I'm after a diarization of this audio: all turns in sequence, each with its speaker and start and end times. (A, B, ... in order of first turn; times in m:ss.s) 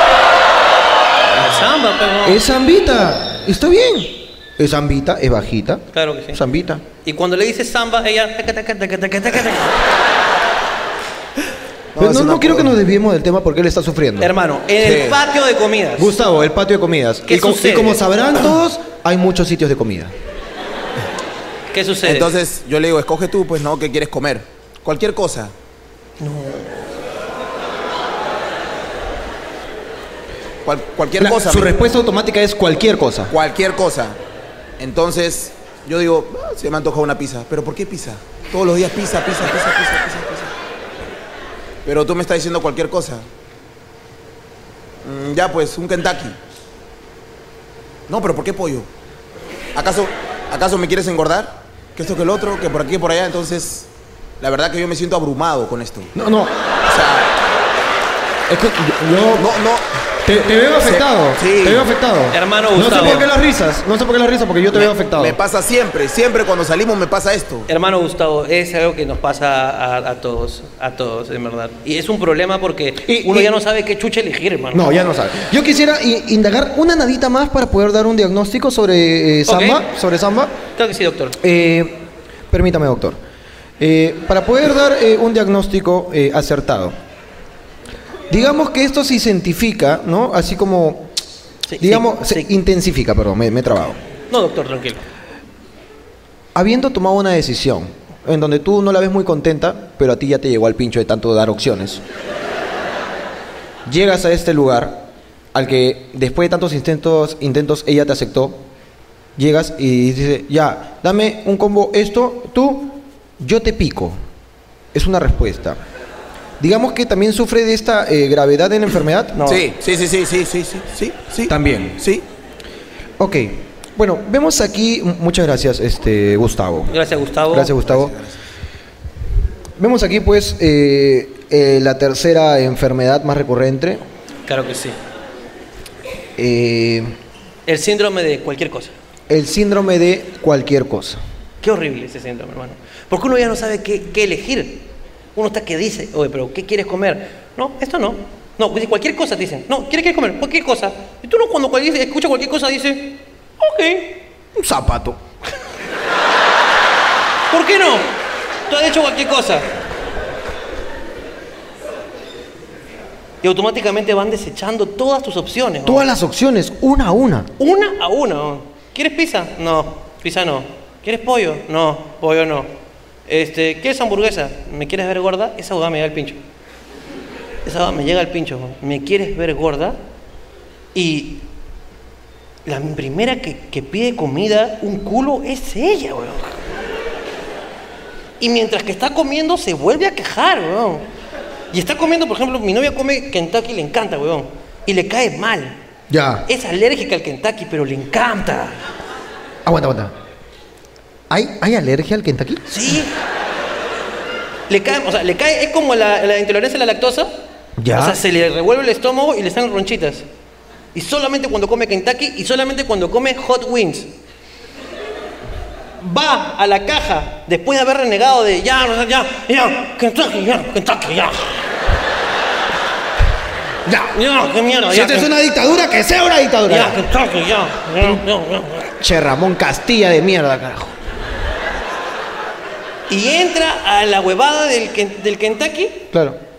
0:01.3-0:02.4 A
0:02.2-0:06.8 B
0:05.9-0:06.4 A
0:07.0-0:09.8 A
0:12.0-0:12.8 C
0:12.0-0:14.3 B
0:14.2-0:16.1 A
0:14.8-0:15.2 C
0:16.0-0:20.1 B
0:17.3-0:18.0 A
0:21.7-0:22.4 A
0:22.0-0:25.5 C
0:26.2-0:26.9 A
0:30.6-0:31.8 C
0:31.2-0:33.3 B
0:33.3-0:34.2 C
0:34.8-0:40.5 C
0:41.8-0:43.3 C
0:45.0-0:46.4 C
0:48.1-0:48.9 C
0:49.8-0:53.9 C
0:54.4-0:56.1 C
0:56.2-0:56.6 B
0:56.9-0:57.3 C
0:58.5-0:59.5 B
0:59.4-0:59.9 C
1:00.3-1:05.4 B
1:00.8-1:01.9 C
1:02.3-1:03.3 A
1:04.8-1:07.7 C
1:07.7-1:14.9 A
1:13.0-1:13.5 B
1:14.7-1:20.5 B
1:19.5-1:19.8 A
1:20.8-1:21.4 A
1:21.4-1:23.2 B
1:23.8-1:27.0 B
1:28.3-1:31.1 B
1:31.7-1:32.5 A
1:31.8-1:34.0 B
1:34.3-1:35.0 A
1:36.6-1:42.0 B
1:43.9-1:48.6 B
1:49.4-1:54.2 B
1:54.9-1:55.8 B
1:56.6-1:59.4 B
1:59.4-1:59.7 A
1:59.4-2:02.2 C
2:01.5-2:02.0 B
2:03.2-2:06.9 B
2:06.9-2:07.8 A
2:07.5-2:08.1 B
2:07.9-2:08.3 C
2:09.8-2:14.0 B
2:14.5-2:15.0 A
2:16.4-2:17.1 B
2:17.7-2:18.9 A
2:19.3-2:21.2 B
2:21.6-2:24.8 A
2:25.4-2:34.2 A
2:34.6-2:35.2 B
2:37.5-2:38.1 A
2:38.7-2:39.7 A
2:43.4-2:46.0 A
2:45.8-2:47.5 B
2:47.6-2:52.7 A
2:53.3-2:56.4 A
2:57.6-3:00.0 A
3:00.9-3:01.4 A
3:02.7-3:06.6 A
3:08.4-3:11.0 A
3:11.7-3:15.8 A
3:16.1-3:16.5 B
3:16.5-3:18.8 A
3:19.6-3:20.1 B
3:21.3-3:22.7 B
3:22.7-3:23.1 A
3:24.7-3:27.3 A
3:27.8-3:28.2 B
3:27.9-3:30.2 A
3:31.0-3:34.1 A
3:36.0-3:41.6 A
3:43.9-3:44.2 B
3:44.1-3:45.3 A
3:44.9-3:47.0 B
3:46.7-3:48.9 A
3:49.0-3:51.0 B
3:53.1-3:56.0 A
3:56.1-3:56.4 B